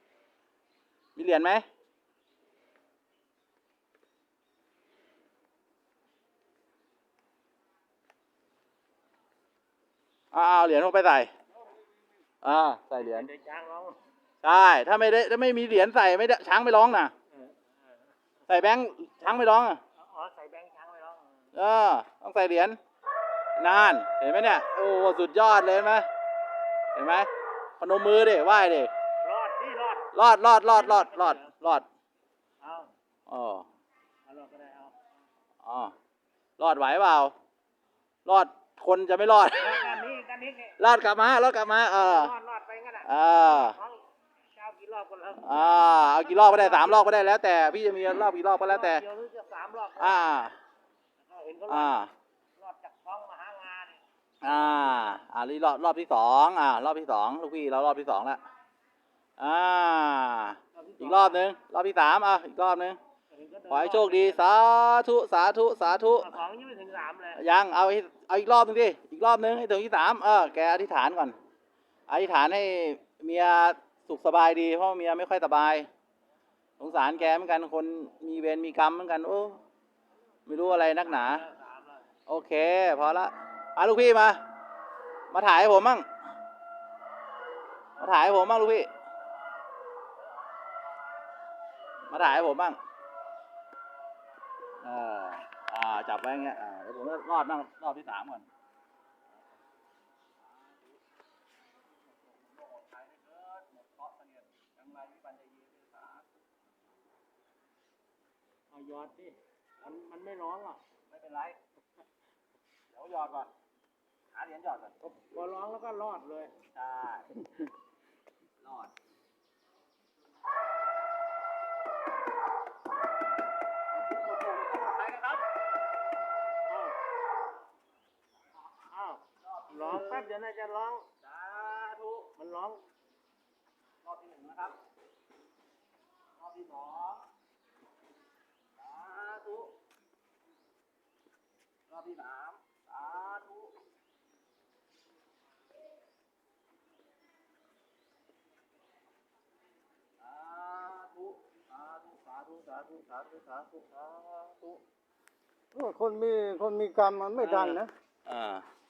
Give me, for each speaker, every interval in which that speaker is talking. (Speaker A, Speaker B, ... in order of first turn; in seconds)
Speaker A: 1.1-1.6, 10.3-11.3, 12.4-13.3, 14.4-17.1, 18.5-19.8, 21.6-22.8, 23.6-26.1, 26.9-28.9, 30.1-31.9, 33.3-33.6, 35.6-35.9, 36.6-37.3, 38.2-39.9, 40.8-42.3, 43.0-43.8, 45.4-49.0, 50.0-50.6, 51.7-52.1, 54.4-58.4, 59.4-63.0, 63.7-66.3, 67.3-71.4, 72.1-75.9, 76.8-79.6, 80.5-81.4, 82.3-84.4, 85.3-86.1, 88.0-88.9, 92.1-92.8, 94.8-98.5, 100.5-100.9, 101.9-106.2, 111.1-111.6, 112.9-113.5, 114.3-115.0, 116.7-117.3, 118.6-118.9, 123.9-125.5, 129.4-130.3, 131.2-132.4, 134.0-134.8, 136.4-137.3, 138.8-139.8, 141.9-143.8, 150.2-154.8, 157.4-158.6
Speaker B: 13.0-14.0, 17.3-17.7, 20.0-21.3, 29.2-30.1, 30.7-31.5, 32.6-32.9, 34.2-35.0, 39.6-40.8, 41.9-44.0, 44.5-47.1, 48.6-50.2, 51.2-52.0, 52.6-54.0, 60.7-61.4, 63.3-64.4, 66.1-67.4, 80.9-82.1, 108.7-110.8, 115.0-116.5, 126.7-127.0, 128.9-131.1, 132.4-132.9
Speaker C: 155.7-157.9